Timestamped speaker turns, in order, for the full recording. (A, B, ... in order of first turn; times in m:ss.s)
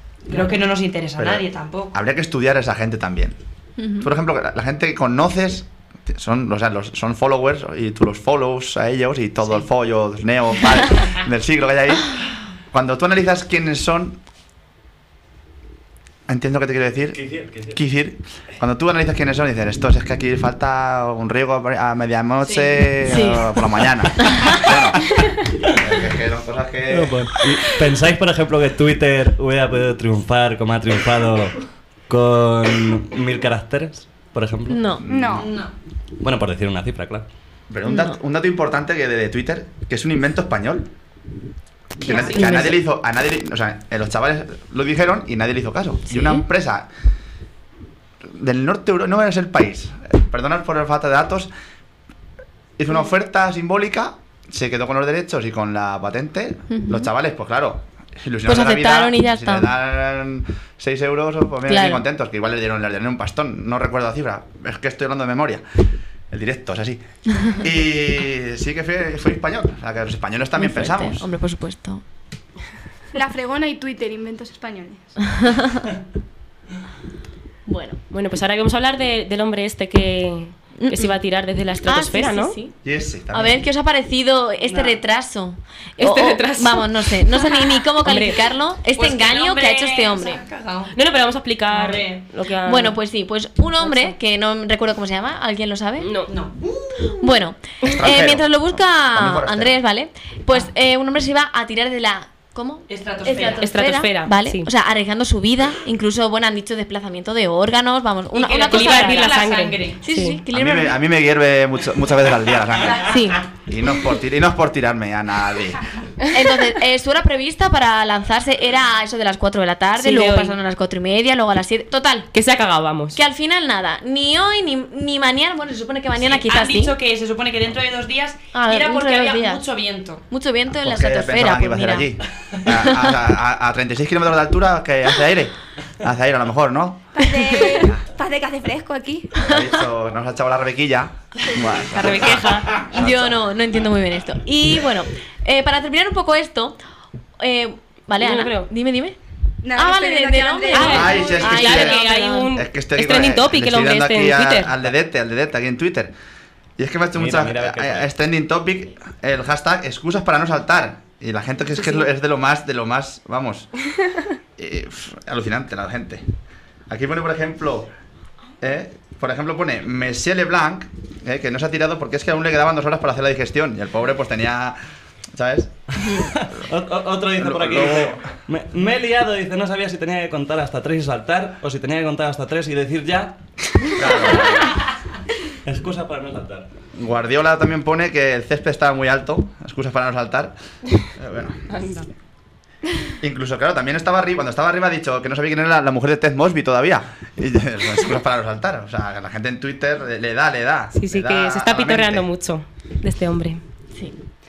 0:00.3-0:02.0 A
0:01.2-0:03.4 B
0:04.0-0:14.2 B
0:16.3-0:27.3 B
0:17.1-0:17.8 C
0:22.4-0:22.8 A
0:23.0-0:23.4 D
0:24.2-0:24.5 D
0:26.9-0:35.0 C
0:34.7-0:35.0 D
0:35.0-0:35.4 B
0:35.1-0:35.5 E
0:35.3-0:35.7 A
0:36.2-0:37.2 C
0:37.7-0:40.9 B
0:37.8-0:38.2 D
0:42.0-0:42.8 D
0:42.0-0:46.9 B
0:46.1-0:46.4 D
0:48.2-0:51.5 B
0:52.8-1:05.6 B
0:56.7-0:57.1 D
0:58.4-0:59.7 D
1:01.7-1:02.0 D
1:06.3-1:11.3 B
1:10.6-1:12.0 D
1:13.1-1:15.4 E
1:17.6-1:18.0 D
1:18.1-1:22.6 F
1:20.8-1:21.2 D
1:21.8-1:22.8 D
1:22.8-1:23.6 B
1:23.3-1:30.4 D
1:24.7-1:24.9 C
1:26.0-1:26.9 F
1:28.0-1:28.4 F
1:28.9-1:30.9 A
1:30.9-1:33.0 F
1:31.7-1:32.2 A
1:32.6-1:36.1 D
1:33.8-1:34.1 F
1:36.0-1:36.3 F
1:36.3-1:37.2 A
1:37.2-1:49.3 D
1:37.9-1:39.8 B
1:42.9-1:43.7 A
1:43.4-1:44.7 F
1:48.3-1:50.0 A
1:48.7-1:50.4 F
1:50.0-1:51.0 D
1:50.5-1:55.8 B
1:53.0-1:53.4 D
1:56.3-2:02.3 D
2:00.0-2:00.5 F
2:02.3-2:03.2 F
2:03.1-2:06.9 D
2:06.2-2:10.2 A
2:08.5-2:09.6 D
2:10.3-2:12.1 D
2:10.7-2:17.1 B
2:17.1-2:19.3 E
2:17.2-2:17.7 D
2:19.4-2:23.5 B
2:21.9-2:22.7 F
2:22.9-2:26.8 D
2:27.4-2:29.2 D
2:28.2-2:28.7 F
2:29.6-2:32.5 E
2:29.7-2:32.0 D
2:30.7-2:34.7 F
2:30.9-2:36.1 B
2:36.8-2:43.8 B
2:37.1-2:38.1 C
2:44.6-2:46.2 B
2:46.9-2:47.9 B
2:48.6-2:54.8 B
2:55.3-2:56.2 B
2:56.0-3:04.7 C
2:57.4-2:58.4 B
3:03.9-3:04.8 B
3:05.6-3:06.7 C
3:07.0-3:11.6 B
3:11.7-3:12.1 F
3:13.2-3:22.3 B
3:21.0-3:23.6 F